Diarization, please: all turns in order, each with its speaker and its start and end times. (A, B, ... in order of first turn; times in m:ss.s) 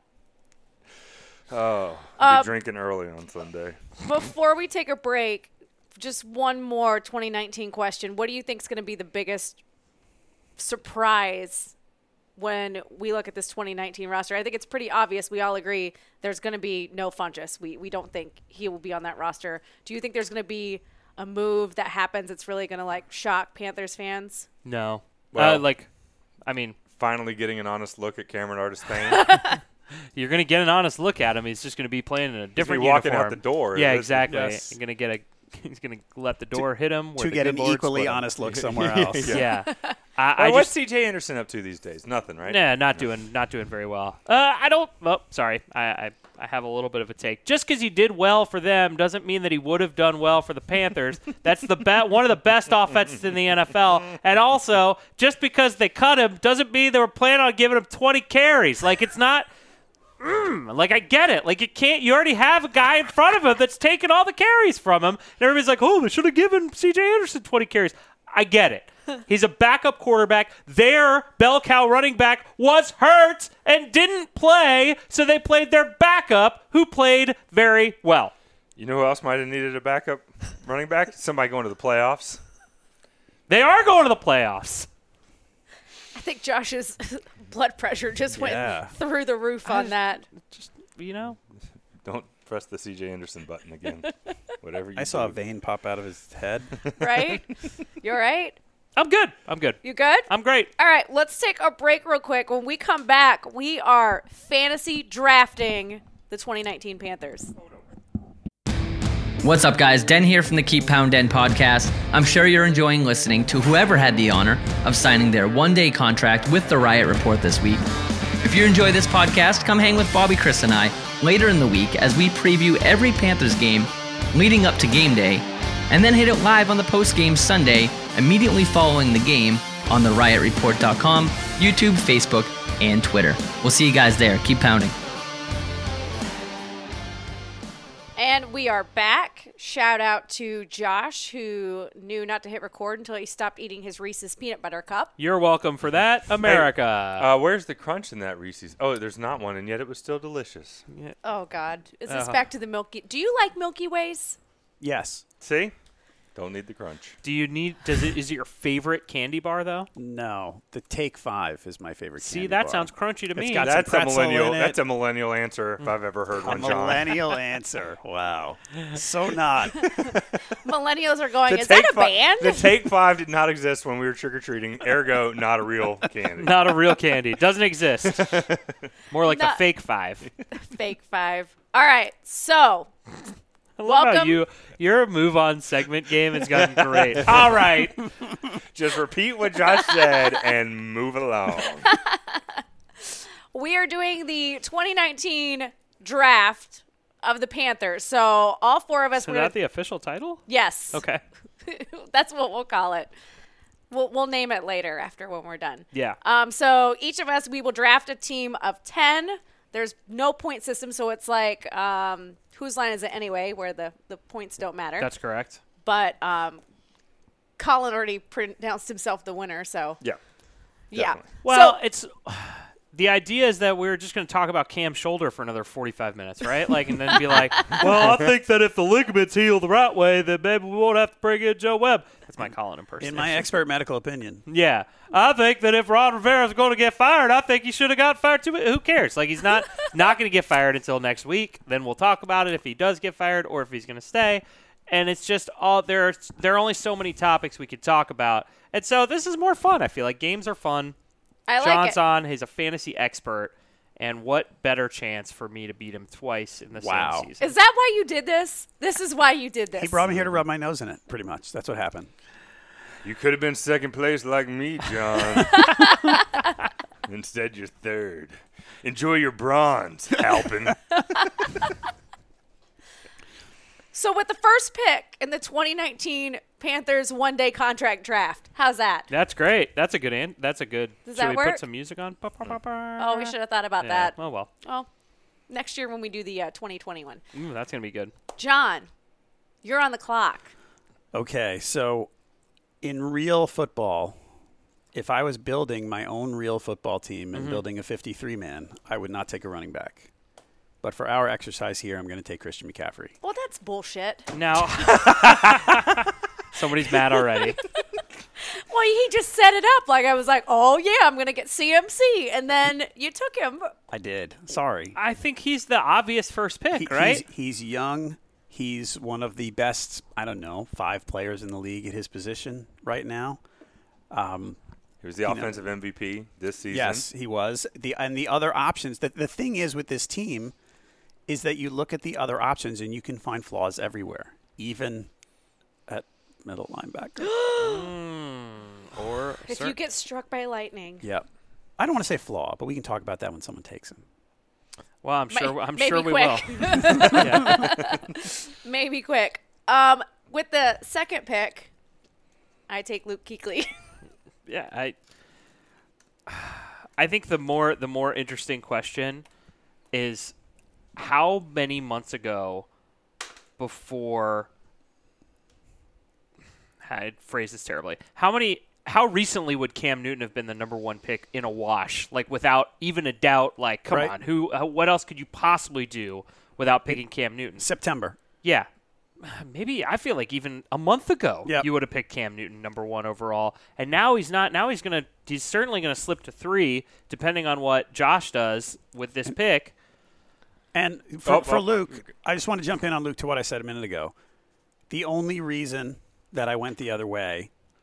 0:01.5-0:03.8 A
0:02.2-0:02.5 B
0:04.0-0:09.6 B
0:10.6-0:11.7 B
0:12.4-0:24.5 B
0:24.6-0:25.9 C
0:25.3-0:25.6 A
0:26.4-0:26.8 C
0:26.9-0:29.3 A
0:29.1-0:29.6 B
0:30.1-0:38.2 C
0:32.6-0:34.6 A
0:34.3-0:34.6 D
0:37.2-0:39.4 D
0:38.4-0:39.5 A
0:39.2-0:40.7 C
0:40.4-0:43.0 A
0:42.4-0:59.5 C
1:00.2-1:18.3 C
1:18.8-1:22.4 A
1:23.5-1:24.9 C
1:26.1-1:30.2 B
1:28.3-1:28.9 D
1:29.6-1:31.4 C
1:32.0-1:35.4 A
1:35.0-1:36.8 D
1:36.8-1:37.3 A
1:37.0-1:38.6 B
1:39.0-1:40.7 C
1:39.8-1:47.5 B
1:49.4-1:57.8 E
1:58.4-2:14.9 E
2:18.2-2:25.1 B
2:25.2-2:27.3 C
2:26.4-2:30.8 A
2:30.9-2:31.2 C
2:31.2-2:34.4 B
2:32.1-2:32.4 C
2:34.8-2:35.2 D
2:35.4-2:35.7 A
2:36.3-2:37.2 A
2:37.2-2:39.9 C
2:40.0-2:44.8 D
2:42.2-2:43.7 C
2:43.6-2:47.2 A
2:46.4-2:50.0 D
2:49.8-2:50.4 A
2:50.5-2:52.7 B
2:51.5-2:57.0 A
2:56.4-2:58.3 C
2:58.0-2:58.6 A
2:59.1-3:00.3 C
2:59.2-2:59.6 B
3:00.5-3:02.9 B
3:03.8-3:08.0 C
3:03.8-3:04.4 B
3:07.2-3:07.7 A
3:08.5-3:11.9 A
3:11.8-3:19.5 B
3:19.2-3:21.2 C
3:20.5-3:21.0 B
3:21.6-3:23.1 B
3:23.9-3:35.1 B
3:25.9-3:26.2 C
3:35.0-3:35.6 C
3:35.8-3:36.6 B
3:37.6-3:40.0 B
3:40.9-3:41.3 A
3:40.9-3:41.8 B
3:41.4-3:53.5 C
3:47.8-3:48.1 A
3:53.0-3:54.4 D
3:54.5-4:11.0 C
4:11.5-4:12.0 B
4:11.6-4:17.5 C
4:16.8-4:17.3 D
4:17.4-4:20.1 B
4:19.7-4:22.1 D
4:23.0-4:25.9 A
4:25.3-4:26.4 B
4:27.1-4:31.6 A
4:33.9-4:39.1 B
4:39.1-4:44.5 C
4:41.0-4:41.6 B
4:43.0-4:44.9 B
4:45.5-4:47.2 B
4:47.3-4:48.1 C
4:48.4-4:48.9 B
4:49.6-4:50.5 B
4:51.1-4:52.1 D
4:52.8-4:54.2 D
4:54.9-5:00.1 D
4:57.3-4:57.6 C
5:00.8-5:03.2 D
5:03.2-5:04.3 B
5:04.3-5:07.6 C
5:08.4-5:13.7 B
5:13.9-5:15.0 D
5:14.9-5:17.2 C
5:16.7-5:23.4 D
5:24.1-5:24.6 D
5:25.0-5:27.0 A
5:25.2-5:25.6 D
5:26.7-5:30.5 D
5:31.3-5:35.1 D
5:35.9-5:37.3 D
5:37.2-5:37.9 B
5:37.6-5:39.7 C
5:39.4-5:41.1 B
5:41.8-5:44.0 D
5:45.0-5:47.8 C
5:45.3-5:51.7 B
5:52.7-5:53.7 B
5:54.5-5:55.0 C
5:56.3-5:59.2 C
5:59.9-6:00.3 C
6:01.0-6:02.7 C
6:03.6-6:04.5 C
6:06.8-6:17.6 C
6:13.9-6:14.1 D
6:17.6-6:18.2 D
6:18.4-6:18.7 C
6:19.2-6:29.7 C
6:30.7-6:34.1 D
6:31.2-6:32.1 A
6:34.9-6:37.5 D